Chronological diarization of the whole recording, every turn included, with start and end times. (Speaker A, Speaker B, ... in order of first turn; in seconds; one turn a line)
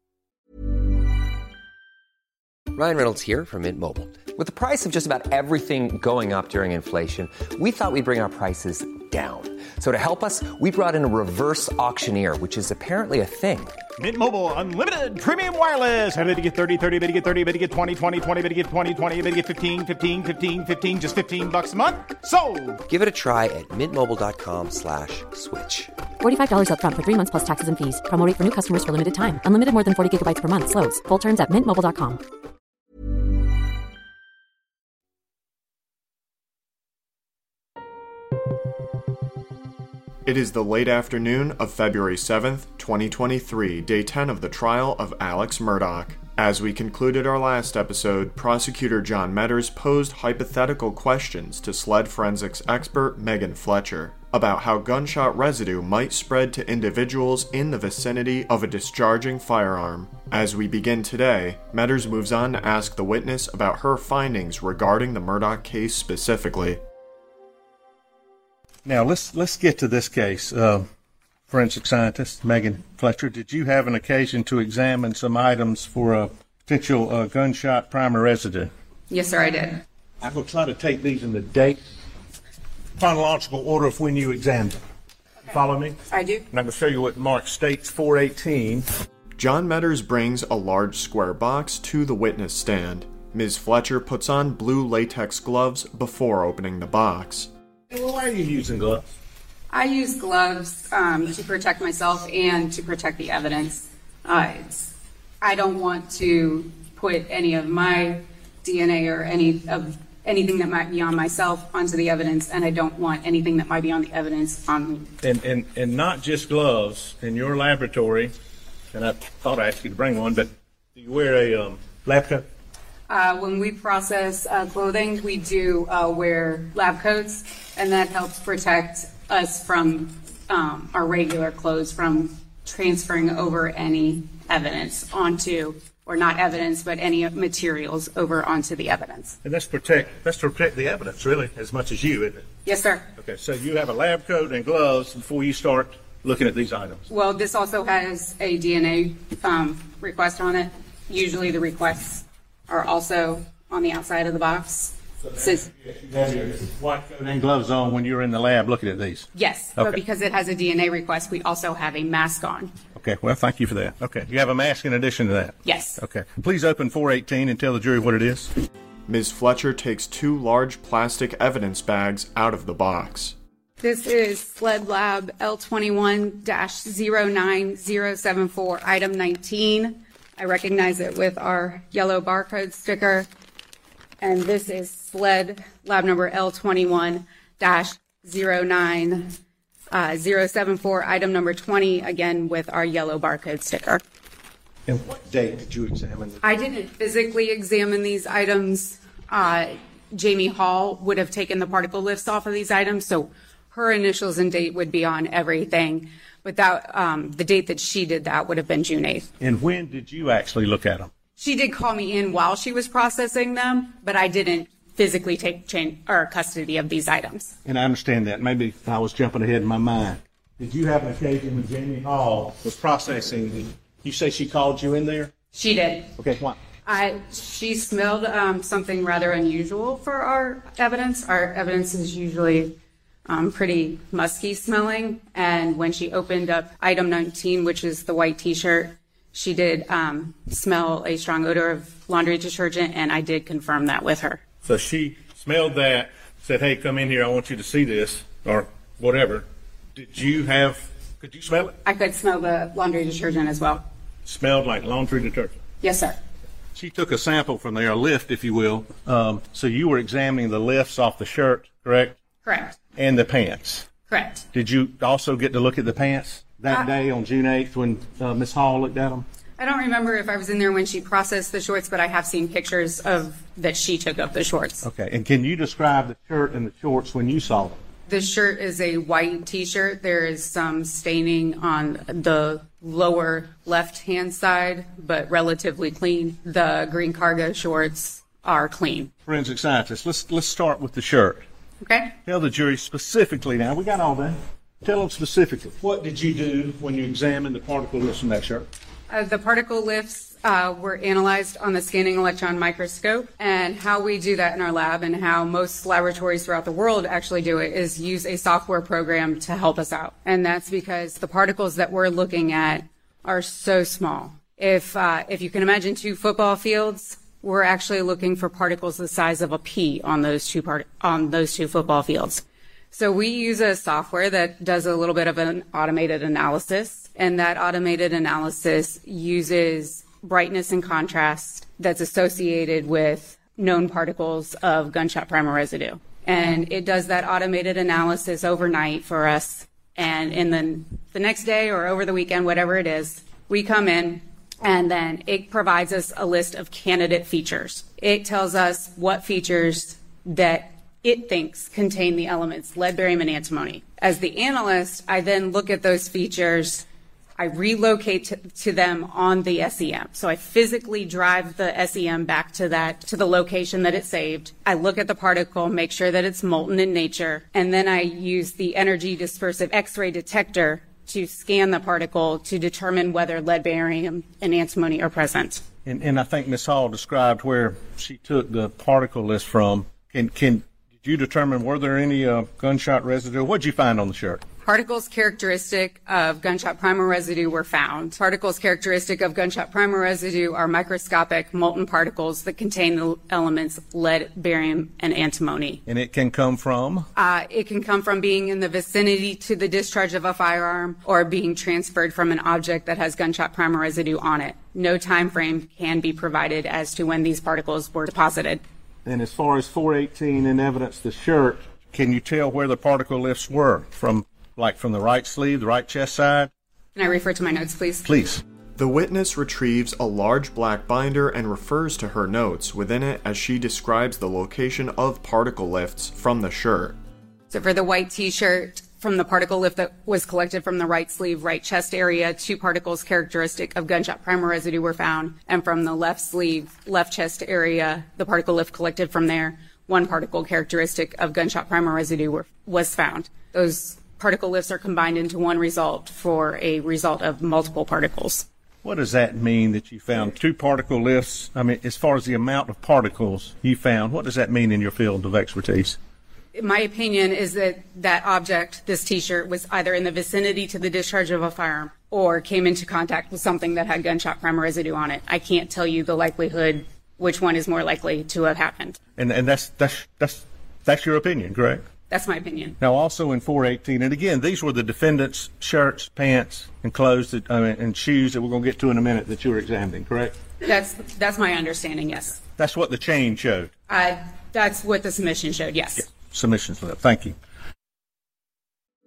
Speaker A: 2.7-13.8
Speaker B: 14.0-22.8
Speaker A: 22.9-25.9
Speaker C: 26.2-32.2
Speaker D: 40.2-66.8
Speaker E: 68.8-70.9
Speaker E: 71.5-78.7
Speaker F: 79.1-79.8
Speaker E: 80.2-81.8
Speaker E: 83.0-84.8
Speaker E: 85.5-86.0
Speaker F: 86.1-86.5
Speaker E: 86.5-88.9
Speaker D: 89.4-97.5
Speaker E: 97.9-99.1
Speaker F: 99.7-115.1
Speaker E: 115.2-118.3
Speaker E: 118.9-122.5
Speaker F: 123.1-139.4
Speaker E: 139.4-142.5
Speaker F: 142.7-143.1
Speaker E: 143.2-147.1
Speaker F: 147.1-155.7
Speaker E: 155.2-160.0
Speaker F: 159.3-162.7
Speaker E: 162.9-168.5
Speaker F: 165.7-166.0
Speaker D: 169.1-173.4
Speaker F: 173.8-183.3
Speaker F: 184.2-189.4
Speaker F: 189.9-194.0
Speaker E: 194.9-196.4
Speaker F: 196.4-209.3
Speaker E: 209.4-211.1
Speaker F: 211.4-217.6
Speaker E: 217.7-225.3
Speaker F: 225.5-226.1
Speaker E: 226.2-226.6
Speaker F: 226.9-244.4
Speaker E: 244.7-251.8
Speaker F: 251.8-253.8
Speaker E: 254.2-255.6
Speaker F: 255.8-256.2
Speaker E: 256.8-262.2
Speaker F: 262.4-262.8
Speaker E: 263.0-263.9
Speaker F: 264.1-264.4
Speaker E: 264.5-269.2
Speaker F: 269.6-274.9
Speaker E: 274.8-277.8
Speaker F: 278.1-289.1
Speaker E: 289.3-291.4
Speaker F: 291.8-292.1
Speaker E: 292.2-298.7
Speaker F: 299.1-356.9
Speaker F: 357.4-375.6
Speaker E: 375.9-384.4
Speaker F: 384.6-395.8
Speaker E: 395.9-397.1
Speaker F: 397.2-408.6
Speaker E: 409.1-416.5
Speaker F: 416.9-418.1
Speaker E: 418.1-418.4
Speaker D: 418.8-427.0
Speaker F: 427.5-448.5
Speaker E: 448.8-456.0
Speaker F: 456.5-469.0
Speaker E: 469.2-471.8
Speaker F: 472.1-472.8
Speaker E: 472.8-480.4
Speaker F: 480.6-482.4
Speaker E: 482.6-483.7
Speaker F: 483.9-486.1
Speaker E: 486.1-487.4